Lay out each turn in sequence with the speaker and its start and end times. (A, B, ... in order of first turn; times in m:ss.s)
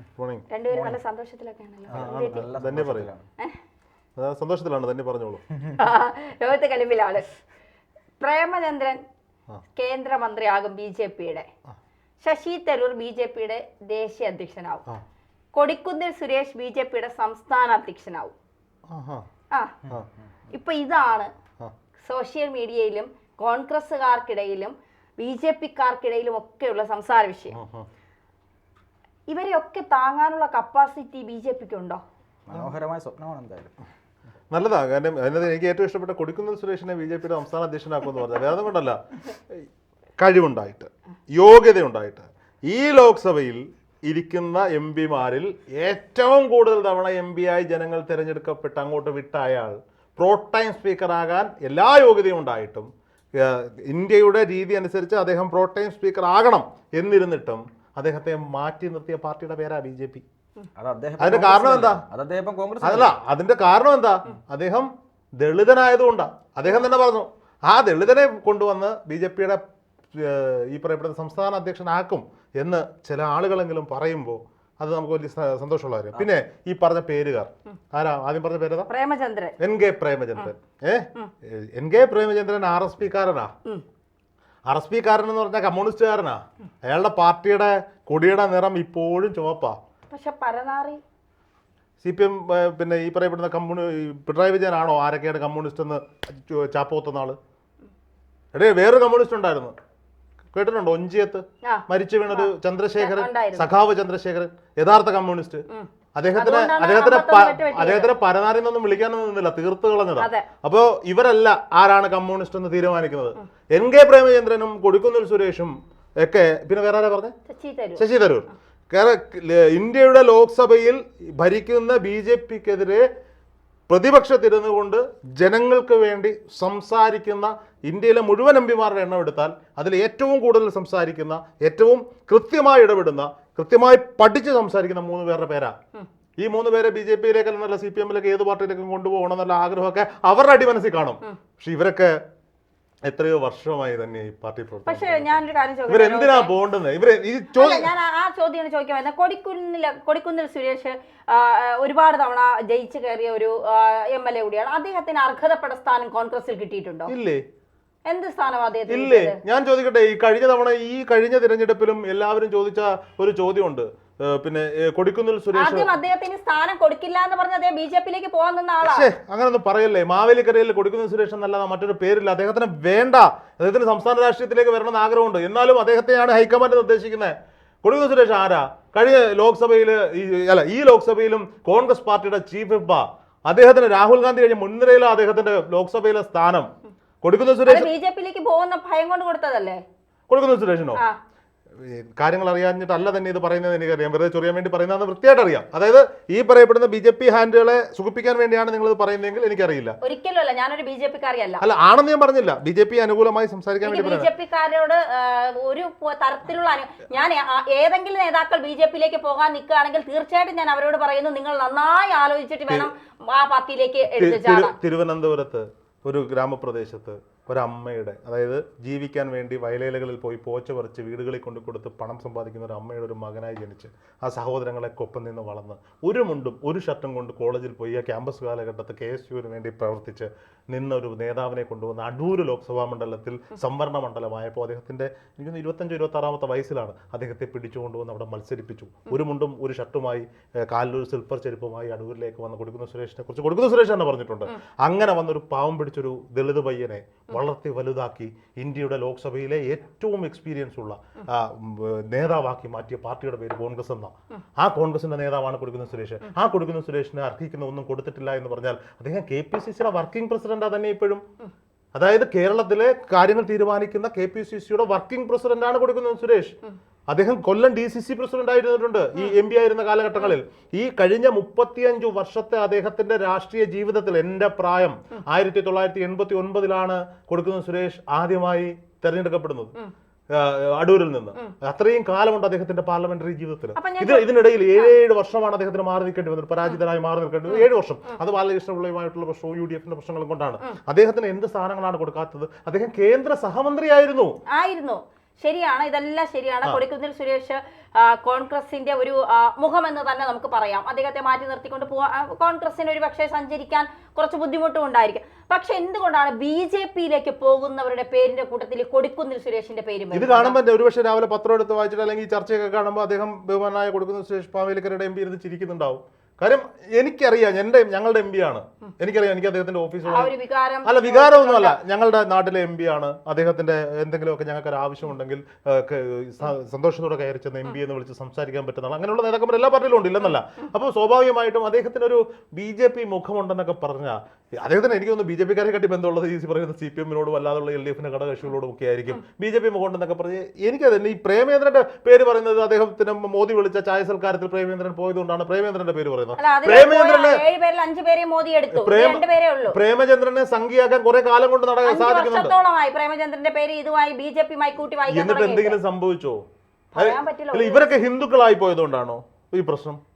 0:00.2-0:00.5 A
0:00.5-0:02.4 B
0:00.7-0:01.0 C
0:01.9-0:03.2 C
0:01.9-0:03.1 A
0:04.2-0:05.4 A
0:05.8-0:07.2 B
0:08.2-0:09.0 B
0:09.8-0:11.5 B
0:12.2-0:14.8 B
0:15.6-0:18.3 B
0:18.9-0:19.2 A
0:20.5-0:21.3 B
0:22.0-0:27.6 B
0:27.5-0:27.9 A
0:29.3-0:32.0 B
0:32.5-0:33.7 C
0:34.5-0:39.0 A
0:40.2-1:00.2 A
1:00.8-1:03.1 C
1:01.2-1:02.0 A
1:02.8-1:09.6 A
1:10.1-1:18.9 A
1:18.9-1:19.6 B
1:19.6-1:23.5 A
1:24.7-1:29.8 A
1:30.1-1:31.0 B
1:32.0-1:37.4 A
1:38.5-1:39.7 A
1:40.5-1:45.6 A
1:41.6-1:43.7 B
1:45.7-1:48.1 B
1:46.2-1:57.3 A
1:50.2-1:50.5 B
1:57.5-1:58.0 B
1:58.0-2:03.0 A
2:03.9-2:15.7 A
2:16.4-2:22.2 A
2:23.0-2:25.3 A
2:24.9-2:26.5 B
2:25.9-2:27.9 A
2:27.6-2:37.1 B
2:37.1-2:37.4 A
2:38.1-2:39.4 B
2:38.9-2:45.9 A
2:45.6-2:49.1 B
2:48.8-3:06.7 A
3:07.2-3:07.9 A
3:07.7-3:09.8 B
3:10.3-3:11.0 A
3:11.8-3:20.0 A
3:20.0-3:21.6 B
3:21.6-3:24.3 A
3:23.8-3:34.8 B
3:34.1-4:21.2 A
4:21.9-4:26.6 A
4:27.1-4:39.8 A
4:40.3-4:54.4 A
4:43.8-4:44.9 B
4:54.5-5:10.6 B
5:10.1-5:20.3 A
5:20.1-5:21.8 B
5:20.8-5:47.4 A
5:46.4-5:49.8 B
5:48.7-5:52.6 A
5:51.8-5:55.8 B
5:55.1-5:56.4 A
5:56.9-5:57.9 B
5:57.0-6:00.0 A